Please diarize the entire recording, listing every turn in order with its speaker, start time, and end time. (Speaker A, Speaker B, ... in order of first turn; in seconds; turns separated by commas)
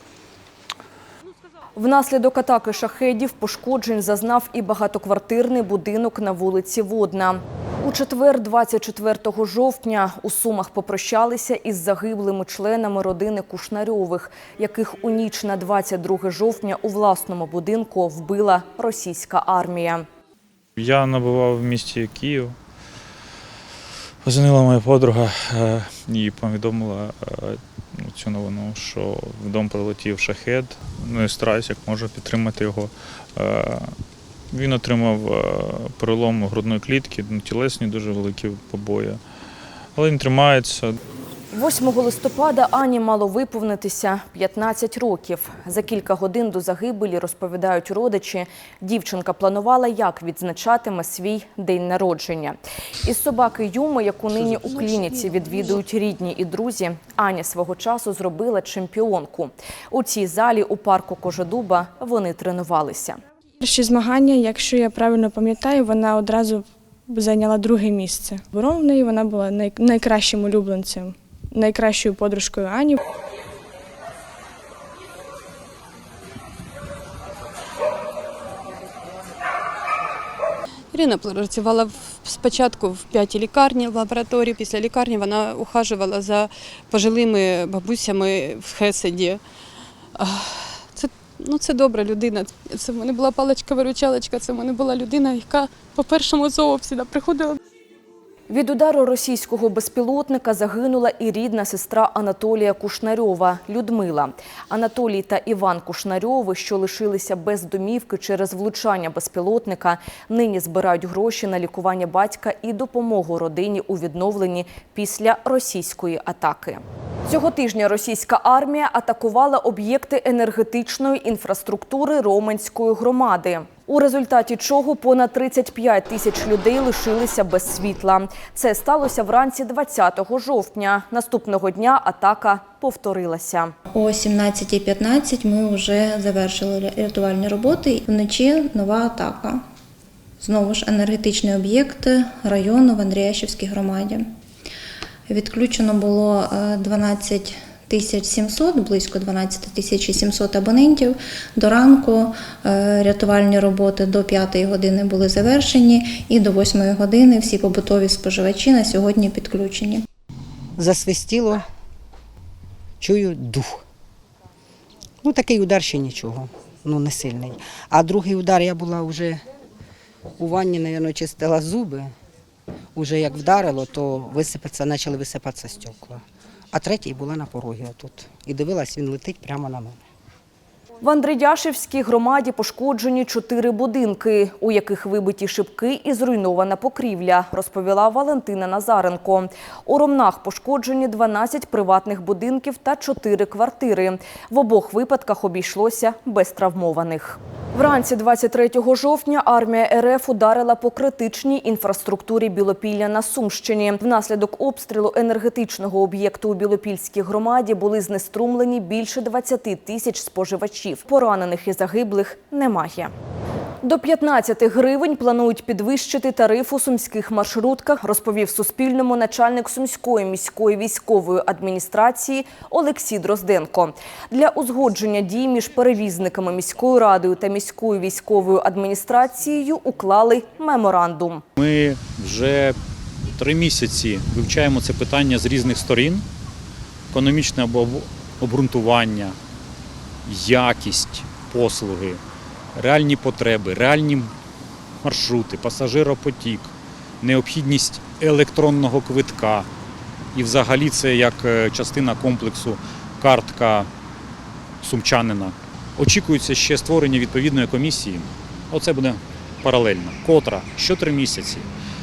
Speaker A: 1.8-20.0, Speaker B: 20.8-22.5, Speaker B: 24.2-33.9, Speaker B: 34.5-39.2, Speaker B: 40.0-41.0, Speaker A: 41.5-63.2, Speaker C: 63.6-73.0, Speaker D: 83.5-84.1, Speaker D: 84.8-85.5, Speaker D: 86.1-86.4, Speaker D: 87.1-89.4, Speaker D: 91.5-92.3, Speaker D: 92.8-95.3, Speaker D: 96.3-97.4, Speaker A: 98.5-133.7, Speaker E: 133.9-139.6, Speaker E: 140.4-144.3, Speaker E: 145.3-160.0, Speaker F: 160.8-161.6, Speaker F: 163.0-163.8, Speaker F: 165.2-169.4, Speaker F: 170.4-172.1, Speaker F: 172.9-180.0, Speaker A: 181.0-213.1, Speaker A: 213.8-231.4, Speaker G: 231.6-232.8, Speaker G: 233.4-236.2, Speaker G: 237.1-239.4, Speaker G: 240.2-242.2, Speaker G: 242.7-244.3, Speaker G: 245.0-249.7, Speaker G: 250.3-253.9, Speaker G: 254.8-261.7